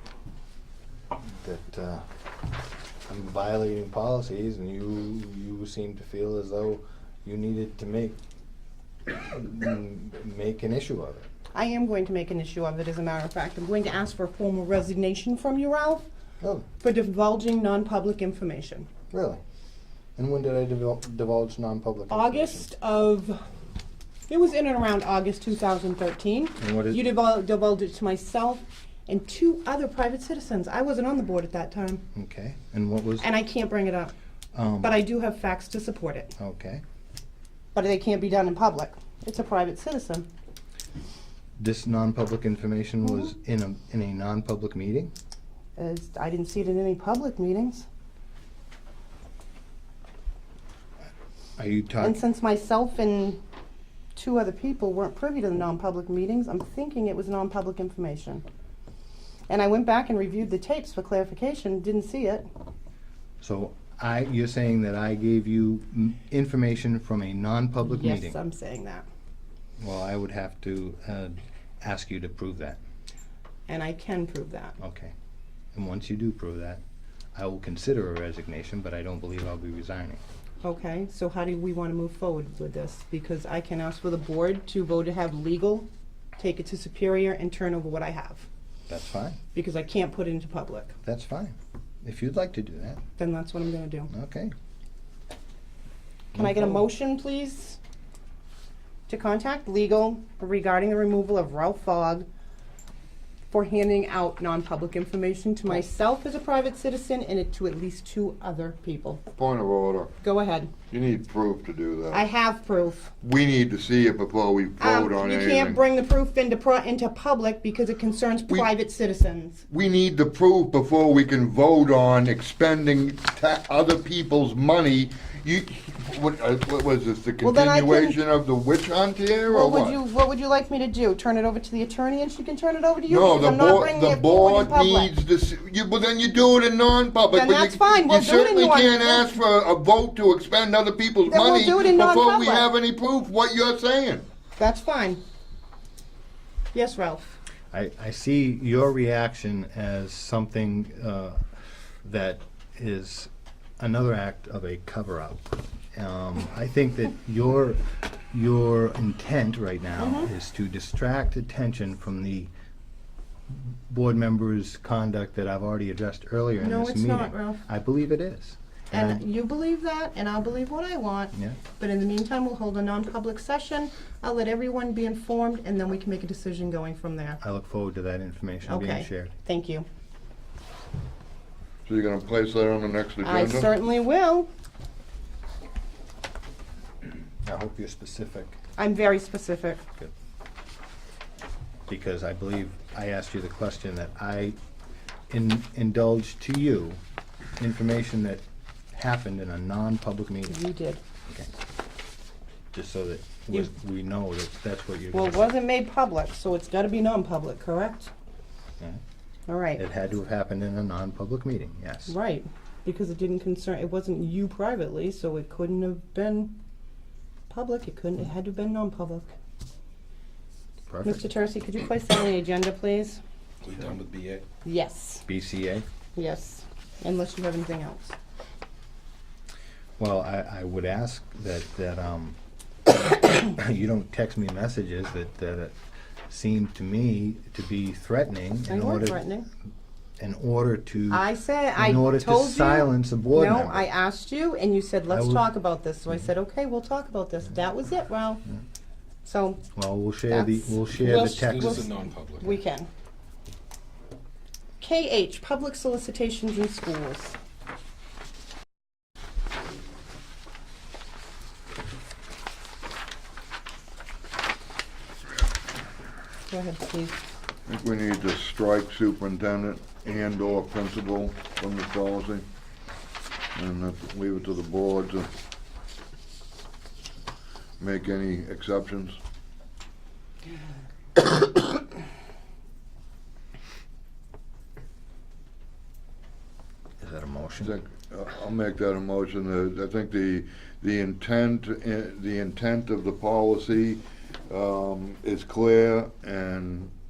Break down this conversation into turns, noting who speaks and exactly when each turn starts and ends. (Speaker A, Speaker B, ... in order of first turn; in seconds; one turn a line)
Speaker A: 1.4-2.0
Speaker A: 3.1-8.2
Speaker A: 9.1-11.3
Speaker B: 11.5-16.0
Speaker A: 16.4-16.6
Speaker B: 16.8-18.9
Speaker A: 19.1-19.4
Speaker A: 20.1-22.7
Speaker B: 22.1-23.4
Speaker B: 24.3-32.0
Speaker A: 26.6-27.0
Speaker A: 32.1-33.3
Speaker B: 33.2-34.1
Speaker A: 34.5-35.0
Speaker B: 34.8-36.3
Speaker A: 36.4-36.8
Speaker B: 37.7-40.2
Speaker A: 41.6-45.1
Speaker B: 45.8-47.9
Speaker A: 51.6-52.2
Speaker B: 52.0-53.4
Speaker B: 54.1-58.4
Speaker B: 59.5-62.5
Speaker A: 63.4-68.4
Speaker B: 67.8-69.0
Speaker A: 69.8-72.8
Speaker B: 73.7-74.8
Speaker A: 74.8-75.1
Speaker A: 75.7-76.8
Speaker A: 77.3-80.2
Speaker B: 80.6-88.5
Speaker A: 88.9-89.4
Speaker B: 89.5-90.9
Speaker A: 91.0-93.0
Speaker B: 93.2-94.1
Speaker A: 94.1-94.5
Speaker A: 96.3-96.8
Speaker B: 96.3-97.8
Speaker B: 99.1-102.3
Speaker B: 103.5-109.2
Speaker C: 109.4-110.1
Speaker B: 110.2-110.7
Speaker C: 110.9-112.2
Speaker B: 112.1-113.1
Speaker C: 113.2-115.8
Speaker B: 114.8-119.6
Speaker C: 119.7-130.0
Speaker B: 127.4-128.2
Speaker B: 129.5-135.1
Speaker C: 133.1-144.2
Speaker B: 137.3-139.2
Speaker B: 141.3-142.7
Speaker B: 144.6-145.2
Speaker B: 146.7-147.4
Speaker A: 147.7-151.4
Speaker A: 152.0-162.5
Speaker B: 160.0-160.3
Speaker A: 163.5-169.2
Speaker B: 166.6-167.6
Speaker B: 168.9-177.4
Speaker A: 171.3-171.6
Speaker A: 177.4-179.3
Speaker B: 178.7-179.8
Speaker C: 181.8-183.7
Speaker B: 183.2-184.5
Speaker A: 187.4-188.6
Speaker B: 188.8-189.8
Speaker A: 191.9-194.6
Speaker A: 195.3-197.0
Speaker A: 197.6-198.4
Speaker A: 198.9-200.6
Speaker B: 200.5-201.0
Speaker A: 202.7-205.5
Speaker B: 205.1-208.1
Speaker B: 209.5-209.8
Speaker A: 209.8-212.2
Speaker B: 212.1-216.5
Speaker B: 217.5-219.3
Speaker A: 220.9-221.2
Speaker B: 221.0-223.2
Speaker D: 223.6-224.5
Speaker B: 224.6-225.2
Speaker A: 225.2-225.8
Speaker B: 226.2-228.2
Speaker A: 230.0-232.3
Speaker A: 233.3-235.7
Speaker A: 236.3-239.2
Speaker B: 238.7-239.5
Speaker A: 240.2-243.9
Speaker B: 241.1-248.4
Speaker A: 245.1-245.5
Speaker B: 249.2-249.6
Speaker A: 249.7-251.9
Speaker B: 250.3-252.9
Speaker D: 251.0-252.6
Speaker B: 254.8-257.4
Speaker B: 266.5-267.2
Speaker C: 267.7-272.4
Speaker C: 273.6-275.3
Speaker C: 277.8-279.2
Speaker A: 287.0-287.7
Speaker C: 287.6-296.9